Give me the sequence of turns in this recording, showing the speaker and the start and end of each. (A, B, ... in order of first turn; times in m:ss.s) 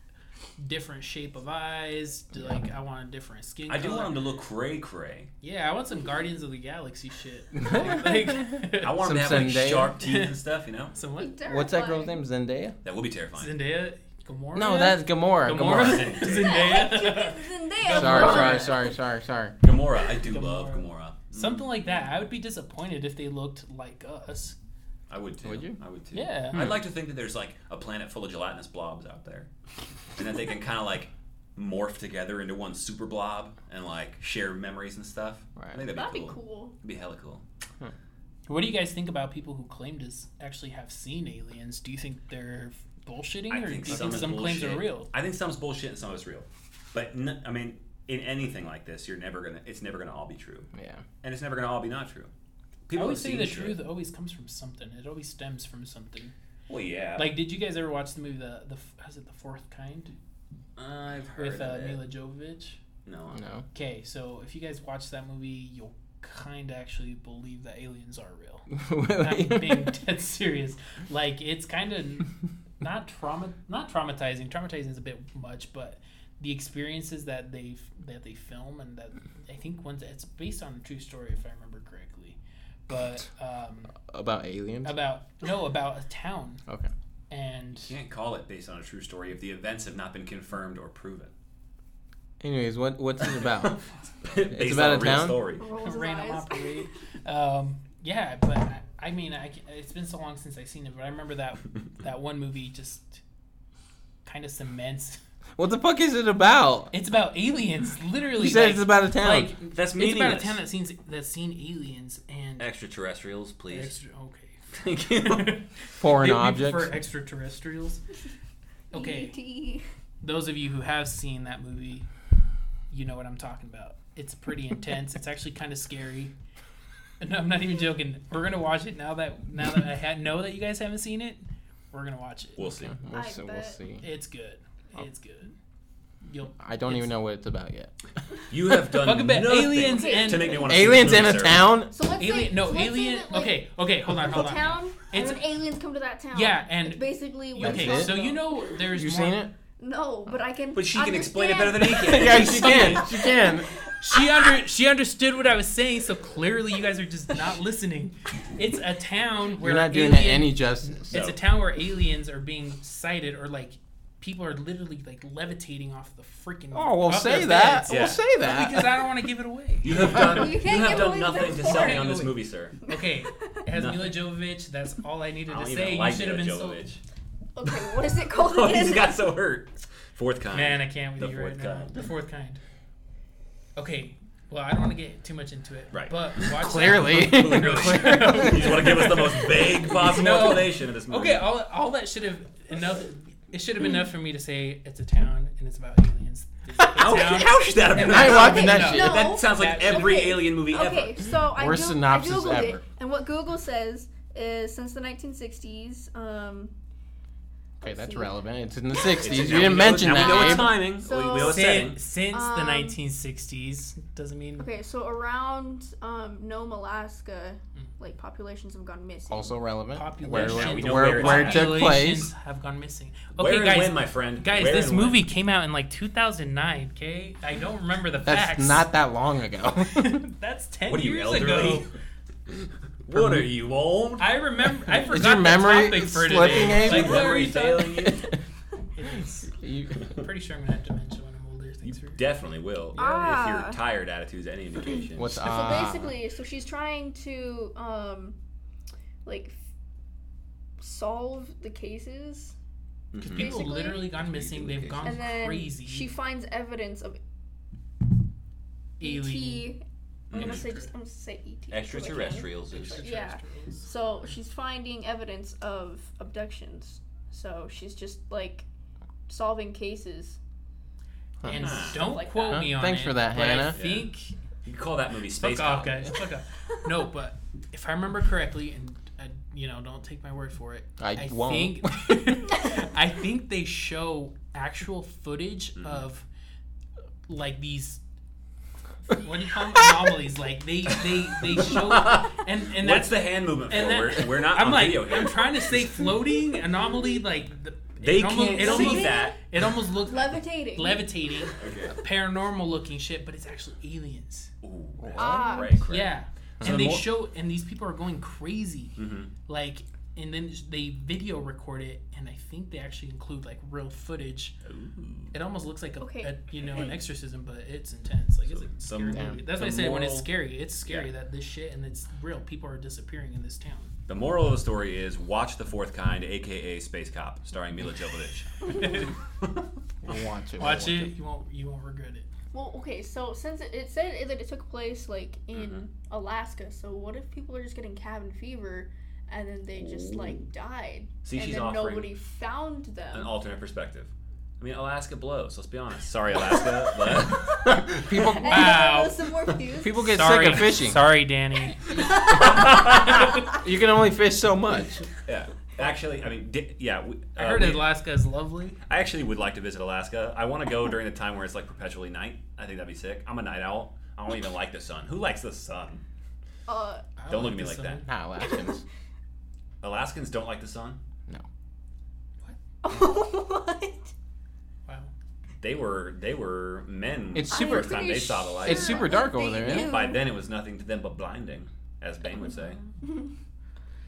0:00.6-0:04.2 A
0:03.7-0:05.3 B
0:05.4-0:09.0 A
0:07.6-0:09.9 C
0:08.8-0:10.9 B
0:10.0-0:10.4 A
0:10.9-0:11.4 A
0:11.2-0:12.2 D
0:11.5-0:12.8 C
0:12.8-0:13.5 B
0:13.3-0:18.8 A
0:14.5-0:16.2 C
0:15.7-0:16.8 B
0:16.2-0:18.9 D
0:17.9-0:19.6 C
0:19.6-0:21.7 B
0:20.1-0:24.6 A
0:25.1-0:29.5 B
0:25.4-0:25.8 C
0:26.1-0:26.8 A
0:30.2-0:37.4 B
0:35.6-0:35.8 C
0:35.9-0:36.7 D
0:38.5-0:45.1 A
0:43.5-0:50.7 B
0:50.7-0:51.0 C
0:51.2-0:52.3 B
0:52.9-0:53.8 B
0:52.9-0:56.3 A
0:56.7-0:57.4 B
0:57.2-1:00.1 A
1:00.8-1:02.0 B
1:01.4-1:02.8 A
1:03.0-1:03.4 B
1:03.3-1:03.6 C
1:03.7-1:24.0 A
1:08.7-1:09.9 C
1:24.0-1:25.0 C
1:24.8-1:26.6 A
1:27.3-1:28.0 A
1:27.8-1:31.3 B
1:32.4-1:33.8 C
1:33.3-1:35.6 B
1:34.5-1:35.4 C
1:35.6-1:36.9 D
1:35.8-1:43.2 A
1:44.2-1:45.2 A
1:45.6-1:46.9 C
1:46.9-1:52.7 A
1:48.4-1:49.5 C
1:49.7-1:50.6 B
1:52.6-1:54.0 B
1:53.7-1:58.0 A
1:54.7-1:55.6 B
1:56.0-1:56.9 C
1:58.9-1:59.3 A
1:58.9-1:59.8 D
2:00.2-2:02.0 A
2:02.9-2:06.3 A
2:07.2-2:12.6 A
2:12.6-2:12.9 B
2:12.6-2:14.0 C
2:13.1-2:13.8 D
2:14.0-2:15.5 A
2:16.2-2:17.1 A
2:16.6-2:17.9 C
2:18.5-2:21.7 B
2:18.9-2:21.0 A
2:19.8-2:20.7 D
2:20.6-2:21.9 C
2:21.9-2:23.6 D
2:22.2-2:25.5 A
2:24.2-2:28.6 D
2:26.3-2:29.4 A
2:27.6-2:28.2 C
2:28.9-2:29.5 C
2:29.8-2:34.1 D
2:30.7-2:33.1 B
2:32.0-2:33.7 C
2:34.0-2:50.6 A
2:39.6-2:41.1 C
2:41.1-2:41.4 B
2:46.7-2:49.0 C
2:47.9-2:48.2 B
2:49.8-2:52.8 B
2:50.1-2:52.2 D
2:51.4-2:56.8 A
2:53.7-2:54.2 B
2:55.5-2:57.0 B
2:57.6-2:59.2 D
2:58.3-3:02.1 B
3:00.5-3:02.6 A
3:03.8-3:20.4 A
3:05.9-3:11.5 B
3:06.4-3:09.1 C
3:17.0-3:21.3 B
3:18.0-3:19.2 C
3:18.2-3:26.7 D
3:21.5-3:22.8 C
3:27.8-3:28.3 D
3:27.8-3:30.8 C
3:29.0-3:32.0 B
3:30.2-3:31.7 D
3:31.4-3:34.6 A
3:32.3-3:33.0 D
3:34.6-3:39.5 D
3:39.3-3:42.3 C
3:39.9-3:48.8 A
3:40.3-3:42.1 B
3:43.4-3:45.2 B
3:48.2-3:50.2 C
3:49.9-3:51.9 A
3:50.9-3:51.8 B
3:52.5-3:54.3 B
3:53.1-3:53.4 C
3:54.2-3:58.0 A
3:54.8-3:58.4 C
3:56.3-3:58.3 B
3:58.9-4:02.2 A
3:59.5-4:00.0 C
4:01.8-4:05.5 B
4:03.0-4:03.8 D
4:05.1-4:06.1 C
4:05.4-4:08.4 D
4:09.2-4:09.6 D
4:10.8-4:12.5 D
4:13.1-4:15.2 B
4:13.2-4:16.1 A
4:13.3-4:14.1 D
4:15.0-4:17.2 D
4:19.0-4:19.7 A
4:19.0-4:28.6 D
4:20.3-4:20.7 B
4:20.3-4:20.9 A
4:21.7-4:23.1 B
4:22.7-4:23.9 A
4:29.3-4:30.4 D
4:31.4-4:31.8 C
4:31.4-4:34.3 A
4:31.5-4:32.0 B
4:31.6-4:32.7 D
4:32.5-4:33.8 C
4:33.7-4:34.1 B
4:34.6-4:36.1 B
4:35.3-4:46.2 A
4:41.0-4:42.4 C
4:45.8-4:46.0 B
4:47.3-4:48.0 A
4:49.1-5:04.5 A
4:51.6-4:56.0 B
4:58.0-4:59.6 B
4:58.5-4:59.4 D
5:00.0-5:01.5 D
5:01.6-5:02.0 B
5:04.6-5:07.1 B
5:05.0-5:05.6 C
5:05.2-5:05.8 D
5:05.9-5:14.6 A
5:06.6-5:07.0 C
5:09.0-5:09.3 B
5:14.6-5:15.3 B
5:15.3-5:23.9 A
5:16.0-5:16.9 D
5:18.4-5:20.3 B
5:19.1-5:19.4 C
5:24.1-5:29.6 B
5:28.6-5:29.1 A
5:30.0-5:31.1 C
5:30.6-5:32.3 A
5:32.5-5:43.3 D
5:35.5-5:35.8 B
5:39.8-5:40.4 B
5:41.2-5:42.1 B
5:43.1-5:48.2 B
5:48.0-5:48.8 C
5:48.3-5:50.1 D
5:48.4-5:49.2 A
5:49.8-5:51.0 C
5:50.1-5:52.0 A
5:52.2-5:53.4 B
5:53.6-5:55.0 C
5:55.2-5:57.8 B
5:57.4-5:58.8 A
5:58.8-6:06.0 B
6:06.7-6:07.0 D
6:07.2-6:08.0 A
6:07.3-6:08.0 B
6:08.0-6:08.8 C
6:09.8-6:11.0 B
6:12.8-6:14.1 D
6:14.8-6:15.1 A
6:15.6-6:22.8 B
6:17.3-6:20.0 C
6:17.5-6:20.2 D
6:23.0-6:23.3 D